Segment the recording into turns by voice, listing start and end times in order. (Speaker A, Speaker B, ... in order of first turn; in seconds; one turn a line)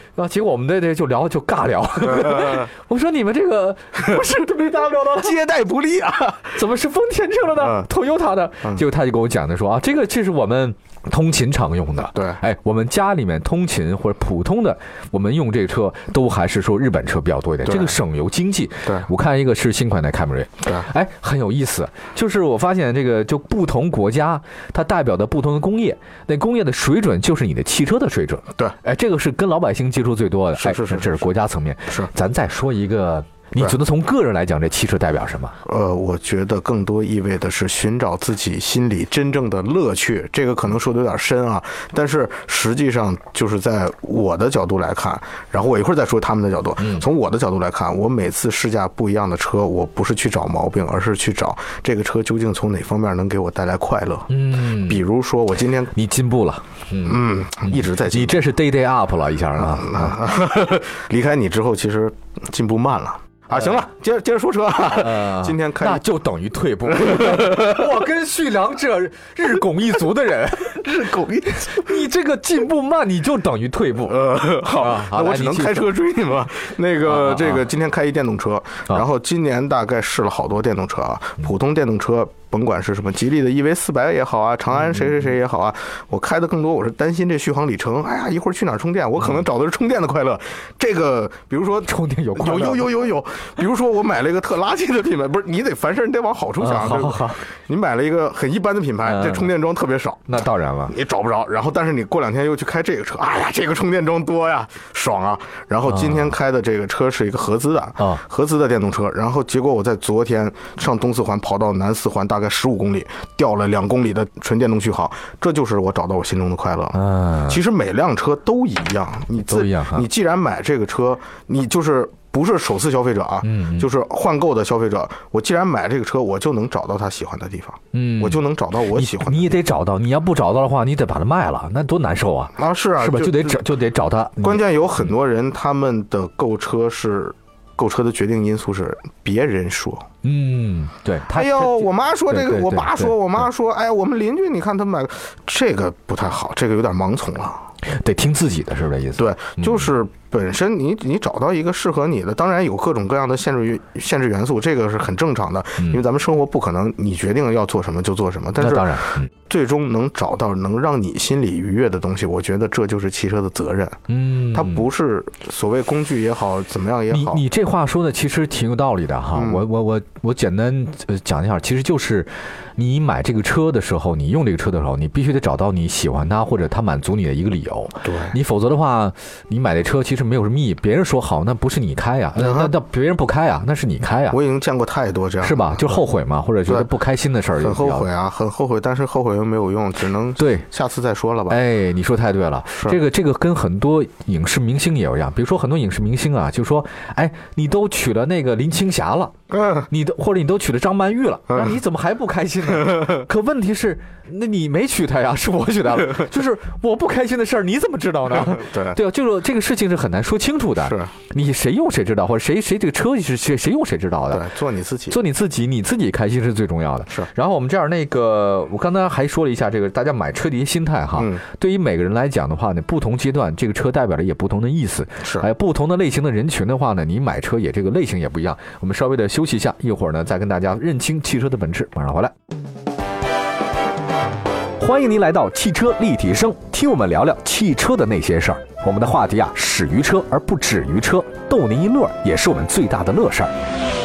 Speaker A: 0.2-5.3
Speaker B: 2.0-2.7
Speaker B: 5.2-6.6
Speaker A: 6.5-35.5
Speaker B: 7.6-7.9
Speaker B: 12.1-12.4
Speaker B: 17.6-18.0
Speaker B: 30.6-31.2
Speaker B: 35.6-55.9
Speaker A: 46.8-47.1
Speaker A: 54.3-55.0
Speaker A: 55.9-60.3
Speaker B: 57.0-58.4
Speaker B: 59.6-66.0
Speaker A: 64.9-70.9
Speaker B: 66.9-67.9
Speaker B: 70.7-72.0
Speaker A: 71.6-75.9
Speaker B: 74.1-129.6
Speaker A: 77.0-77.6
Speaker A: 91.8-92.9
Speaker A: 96.6-97.5
Speaker A: 99.0-99.5
Speaker A: 100.3-101.0
Speaker A: 105.9-106.3
Speaker A: 116.9-117.6
Speaker A: 119.5-120.0
Speaker A: 123.4-123.9
Speaker A: 127.9-134.6
Speaker B: 132.6-133.6
Speaker B: 134.4-140.1
Speaker A: 140.2-143.2
Speaker B: 141.3-147.6
Speaker A: 147.9-149.9
Speaker B: 149.2-164.0
Speaker A: 158.6-159.3
Speaker A: 164.1-164.9
Speaker B: 164.5-167.4
Speaker A: 167.1-184.4
Speaker B: 169.3-169.6
Speaker B: 178.0-178.3
Speaker B: 182.4-182.7
Speaker B: 184.3-186.0
Speaker A: 185.4-188.1
Speaker B: 187.6-191.6
Speaker A: 190.4-190.7
Speaker A: 191.5-199.3
Speaker B: 199.5-199.9
Speaker A: 199.9-214.4
Speaker B: 201.5-201.8
Speaker B: 202.7-203.2
Speaker B: 208.3-209.0
Speaker B: 210.8-211.1
Speaker B: 214.3-215.2
Speaker A: 215.1-232.3
Speaker B: 221.2-221.4
Speaker A: 234.8-243.5